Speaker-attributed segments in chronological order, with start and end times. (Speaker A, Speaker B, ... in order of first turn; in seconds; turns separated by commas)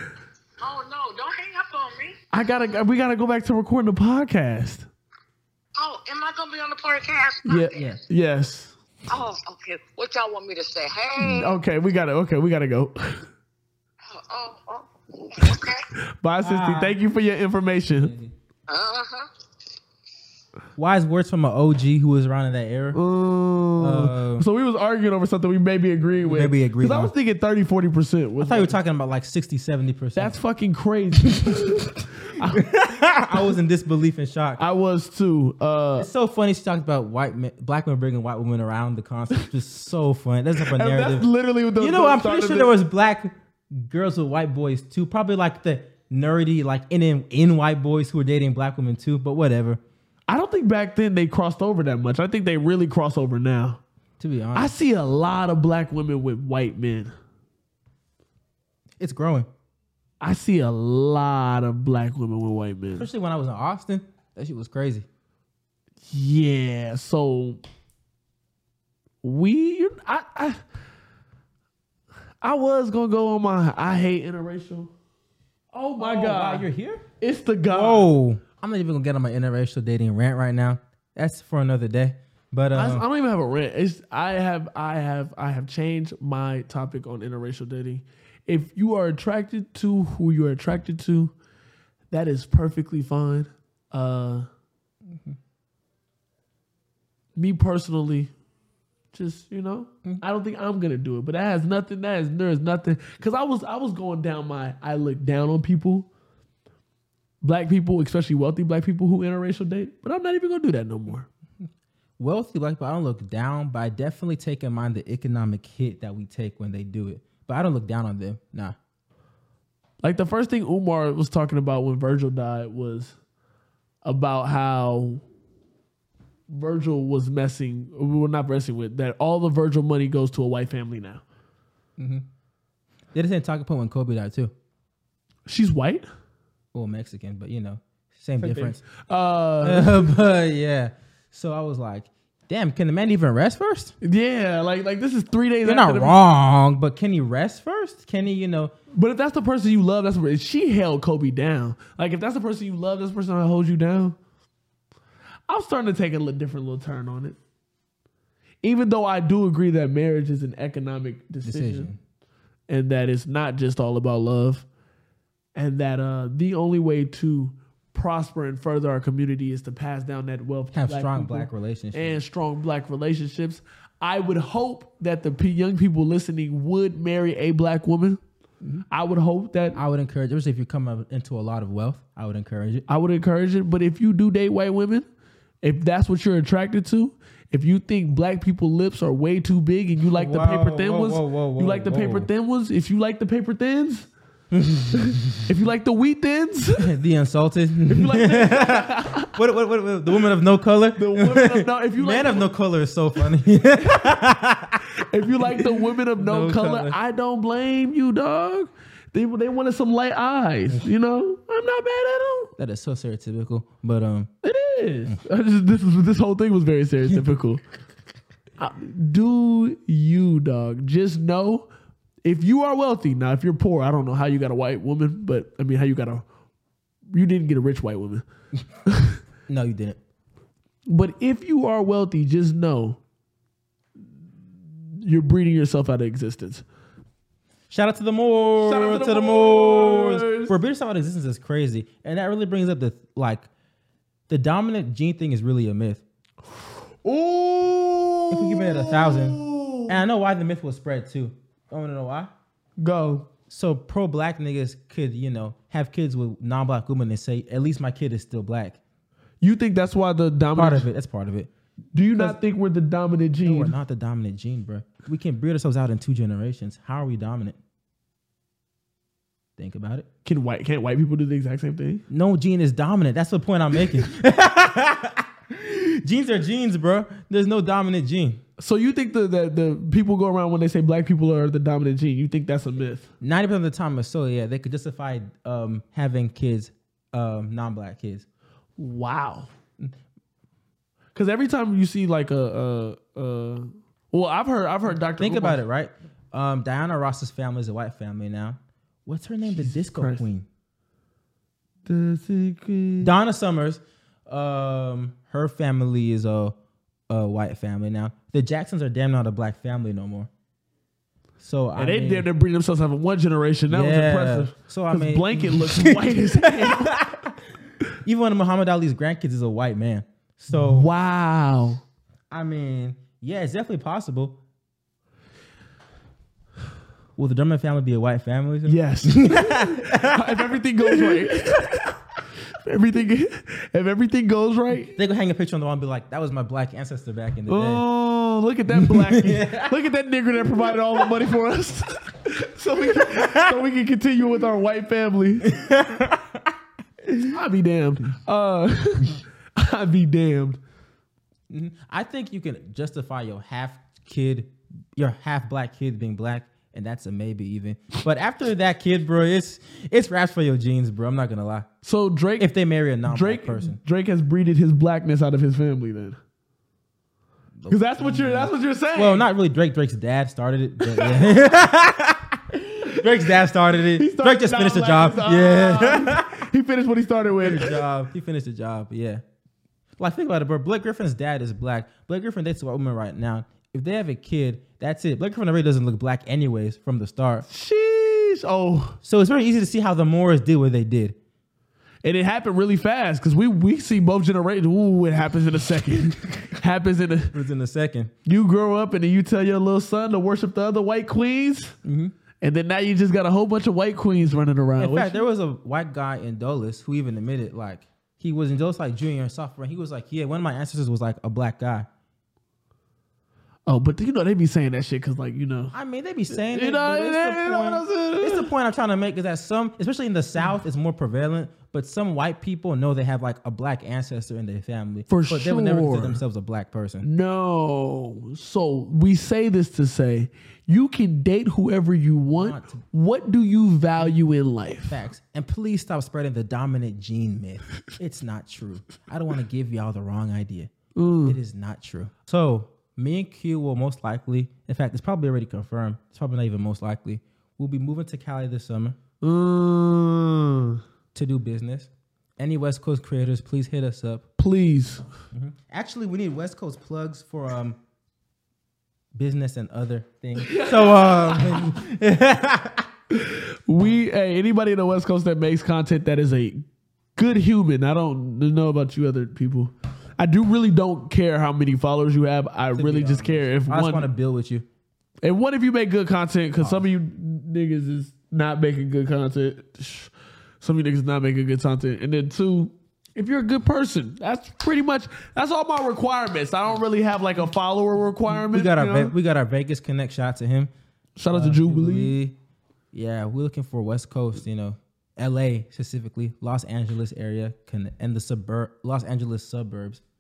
Speaker A: 0.6-2.2, Speaker B: 2.3-4.9, Speaker A: 5.8-8.0, Speaker B: 7.5-8.7, Speaker A: 9.1-11.6, Speaker B: 11.2-13.2, Speaker A: 14.0-15.8, Speaker B: 16.2-18.1, Speaker C: 16.4-16.9, Speaker C: 17.9-18.3, Speaker A: 18.7-19.2, Speaker C: 20.8-23.0, Speaker B: 22.9-28.8, Speaker C: 23.8-24.4, Speaker C: 26.2-27.1, Speaker C: 28.4-30.4, Speaker B: 30.1-32.7, Speaker C: 32.5-34.6, Speaker B: 34.6-36.1, Speaker C: 36.0-49.8, Speaker B: 40.7-42.7, Speaker B: 50.3-53.8, Speaker C: 54.2-54.7, Speaker B: 54.5-57.1, Speaker C: 59.0-59.5, Speaker B: 60.2-63.1, Speaker C: 63.0-65.1, Speaker B: 66.1-67.6, Speaker B: 69.2-70.6, Speaker B: 72.4-74.9, Speaker B: 75.7-76.7, Speaker C: 76.0-77.0, Speaker B: 77.2-78.1, Speaker C: 77.7-83.0, Speaker B: 82.7-91.3, Speaker B: 92.1-94.5, Speaker B: 97.3-98.3, Speaker B: 99.1-106.1, Speaker B: 107.4-111.3, Speaker C: 112.2-118.8, Speaker B: 120.0-123.2, Speaker B: 124.0-125.2, Speaker B: 126.5-131.2, Speaker C: 132.0-132.2, Speaker C: 133.1-134.5, Speaker B: 135.4-136.1, Speaker C: 136.7-138.8, Speaker B: 138.4-140.1, Speaker C: 139.6-143.9, Speaker B: 144.0-146.2, Speaker C: 145.6-148.7, Speaker B: 148.9-154.2, Speaker B: 155.5-157.4, Speaker B: 158.6-161.9, Speaker C: 161.4-162.0, Speaker B: 162.7-164.7, Speaker B: 165.5-178.2, Speaker C: 170.7-172.2, Speaker B: 178.9-179.8, Speaker C: 179.7-182.8, Speaker B: 182.9-185.1, Speaker B: 185.6-194.1, Speaker C: 190.1-192.3, Speaker C: 194.5-195.4, Speaker B: 195.0-196.9, Speaker C: 196.8-207.0, Speaker B: 197.9-199.3, Speaker B: 200.9-202.5, Speaker B: 205.1-212.5, Speaker C: 212.6-214.3, Speaker B: 214.4-217.6, Speaker B: 218.6-221.7, Speaker B: 222.2-226.2, Speaker B: 227.1-228.2, Speaker B: 228.8-229.2, Speaker C: 229.5-230.0, Speaker B: 230.9-233.0, Speaker B: 235.0-236.6, Speaker C: 237.7-243.5, Speaker B: 238.6-240.6, Speaker C: 244.3-246.0, Speaker B: 247.0-250.0, Speaker C: 248.3-252.3, Speaker B: 252.8-253.3, Speaker C: 253.5-258.8, Speaker B: 259.4-260.9, Speaker C: 260.5-261.5, Speaker B: 261.9-263.7, Speaker C: 263.4-267.6, Speaker C: 269.6-270.1, Speaker B: 270.2-272.0, Speaker C: 272.1-278.4, Speaker B: 278.6-283.1, Speaker C: 283.2-288.2, Speaker B: 288.8-289.5, Speaker B: 291.1-295.6, Speaker C: 295.2-300.5, Speaker B: 299.5-300.3, Speaker B: 301.9-303.1, Speaker C: 303.0-306.6, Speaker C: 307.1-310.3, Speaker C: 311.4-312.3, Speaker B: 311.8-317.1, Speaker C: 313.7-317.3, Speaker C: 318.0-320.9, Speaker B: 320.5-321.8, Speaker C: 322.3-324.4, Speaker C: 327.1-331.6, Speaker B: 328.6-331.9, Speaker B: 332.6-334.9, Speaker C: 334.9-337.8, Speaker B: 337.5-345.5, Speaker C: 338.7-339.8, Speaker C: 342.8-343.6, Speaker C: 345.4-346.3, Speaker B: 347.2-350.6, Speaker C: 351.5-361.7, Speaker B: 361.8-362.5, Speaker C: 362.4-363.8, Speaker B: 363.0-366.2, Speaker C: 367.6-376.4, Speaker B: 367.7-369.3, Speaker B: 370.9-371.3, Speaker B: 374.0-377.8, Speaker C: 377.4-379.2, Speaker C: 380.0-387.4, Speaker B: 387.5-389.0, Speaker C: 389.0-391.2, Speaker B: 392.0-397.3, Speaker C: 397.3-398.1, Speaker B: 398.2-401.7, Speaker C: 401.8-402.1, Speaker B: 402.4-405.2, Speaker C: 404.8-411.9, Speaker B: 413.7-415.7, Speaker C: 415.7-427.1, Speaker B: 416.3-418.5, Speaker B: 425.1-426.2, Speaker B: 427.0-435.0, Speaker C: 432.3-432.8, Speaker C: 434.0-434.2, Speaker C: 434.8-440.7, Speaker B: 440.9-441.4, Speaker C: 441.2-449.0, Speaker B: 449.2-450.8, Speaker C: 451.1-454.2, Speaker B: 454.4-455.0, Speaker C: 455.3-457.8, Speaker C: 459.1-462.9, Speaker B: 460.4-461.8, Speaker B: 463.1-474.1, Speaker C: 472.7-474.6, Speaker B: 475.2-489.1, Speaker C: 476.6-476.9, Speaker C: 488.3-490.7, Speaker B: 491.2-492.1, Speaker C: 491.3-492.4, Speaker C: 492.9-500.0